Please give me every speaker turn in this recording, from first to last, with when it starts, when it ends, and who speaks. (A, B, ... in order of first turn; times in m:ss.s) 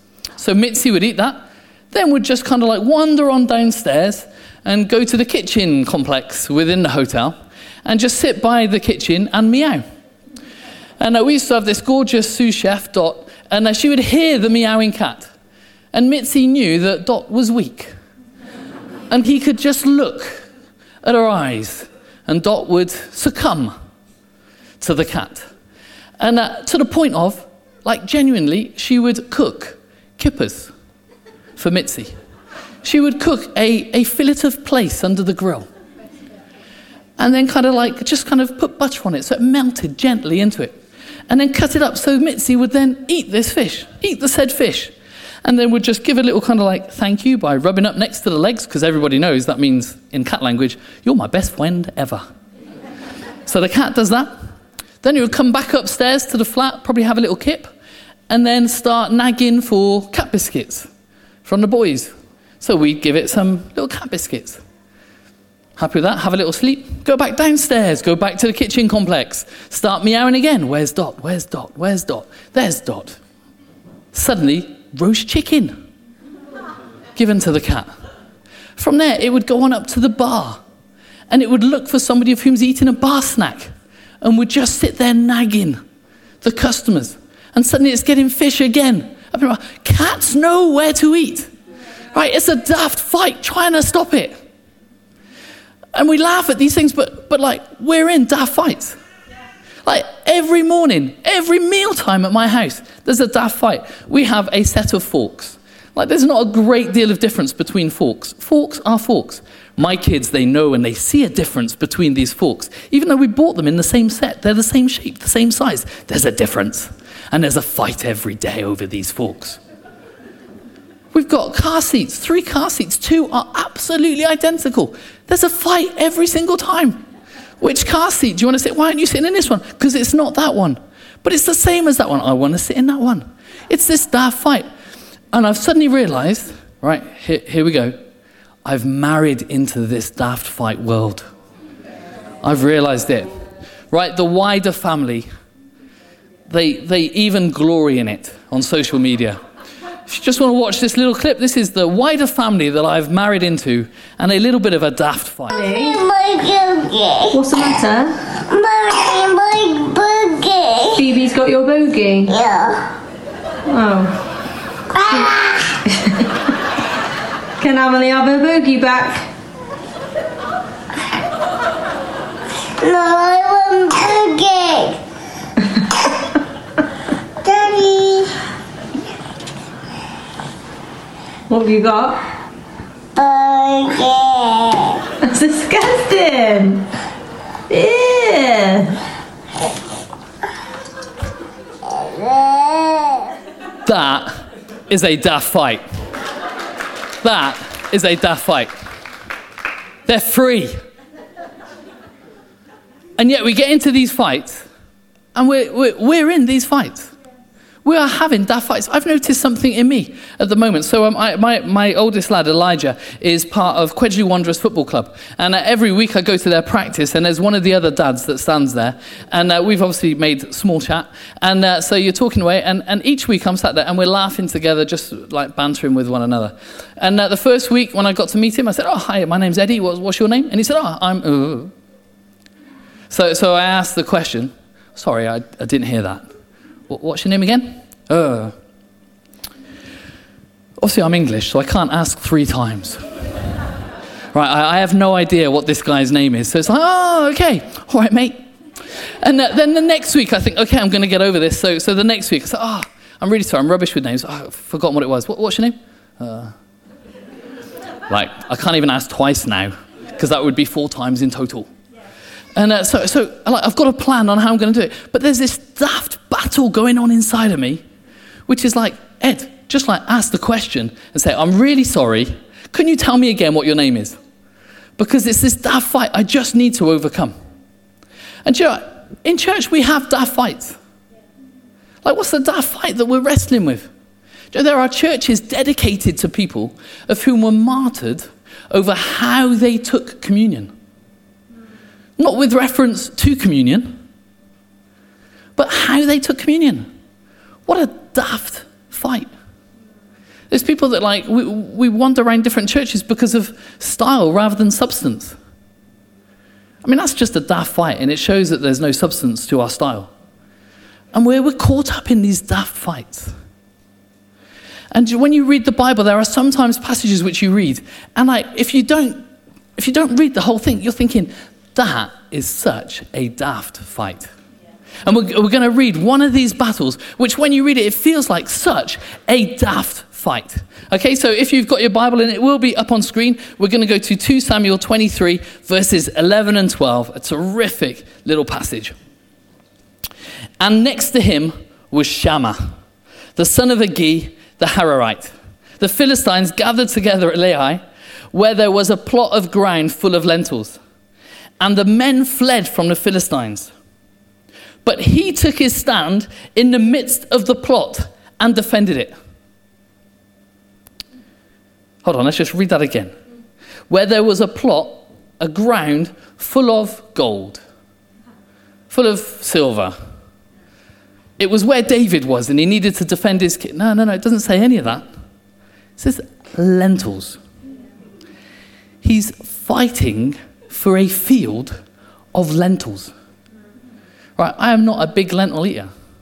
0:00.4-0:09.8 A
0:11.0-0:15.3 A
0:15.9-0:17.9 A
0:19.1-0:20.4 A
0:21.0-0:23.8 A
0:24.8-0:25.5 A
0:26.2-0:30.7 A
0:31.6-0:32.1 A
0:32.8-0:35.7 A
0:37.2-0:40.8 A
0:41.3-0:52.2 A
0:53.4-0:54.3 A
0:55.0-0:57.7 A
0:58.3-1:00.9 A
1:01.4-1:04.6 A
1:05.8-1:13.2 A
1:14.1-1:15.8 A
1:17.2-1:17.9 A
1:18.8-1:20.6 A
1:21.3-1:25.8 A
1:26.4-1:31.5 A
1:32.1-1:34.4 A
1:35.9-1:39.0 A
1:39.8-1:59.6 A
2:01.1-2:07.0 A
2:07.6-2:14.6 A
2:15.3-2:18.0 A
2:18.6-2:21.3 A
2:22.4-2:23.3 A
2:23.9-2:25.3 A
2:26.5-2:29.4 A
2:30.1-2:35.6 A
2:35.6-2:36.0 B
2:35.6-2:37.4 C
2:37.3-2:38.2 B
2:38.4-2:41.0 C
2:41.0-2:42.3 B
2:42.3-2:43.0 C
2:43.6-2:44.2 B
2:44.9-2:45.8 C
2:46.0-2:46.2 B
2:47.6-2:49.3 B
2:52.8-2:55.0 C
2:57.4-2:58.3 C
3:01.5-3:02.2 B
3:03.2-3:05.0 C
3:05.2-3:06.9 B
3:07.7-3:09.0 B
3:12.1-3:13.0 C
3:13.8-3:15.8 A
3:17.2-3:18.7 A
3:20.0-3:20.7 A
3:23.2-3:24.6 A
3:25.3-3:27.1 A
3:27.8-3:51.7 A
3:53.1-3:56.2 A
3:56.9-3:58.5 A
4:00.8-4:03.0 A
4:04.3-4:08.4 A
4:09.2-4:16.5 A
4:18.1-4:21.7 A
4:22.5-4:27.8 A
4:28.5-4:34.2 A
4:35.0-4:37.4 A
4:38.4-4:40.8 A
4:42.0-4:43.9 A
4:44.5-4:50.7 A
4:52.2-4:54.0 A
4:55.6-4:56.9 A
4:57.6-4:59.3 A
5:00.5-5:05.4 A
5:06.8-5:10.1 A
5:11.1-5:13.3 A
5:14.9-5:19.2 A
5:19.8-5:24.3 A
5:25.0-5:38.9 A
5:40.6-5:42.7 A
5:43.4-5:50.8 A
5:51.6-5:53.7 A
5:54.8-5:59.1 A
6:02.0-6:03.1 A
6:03.9-6:07.6 A
6:08.9-6:09.9 A
6:11.4-6:15.1 A
6:16.0-6:17.4 A
6:19.0-6:21.8 A
6:22.3-6:23.1 A
6:24.4-6:25.9 A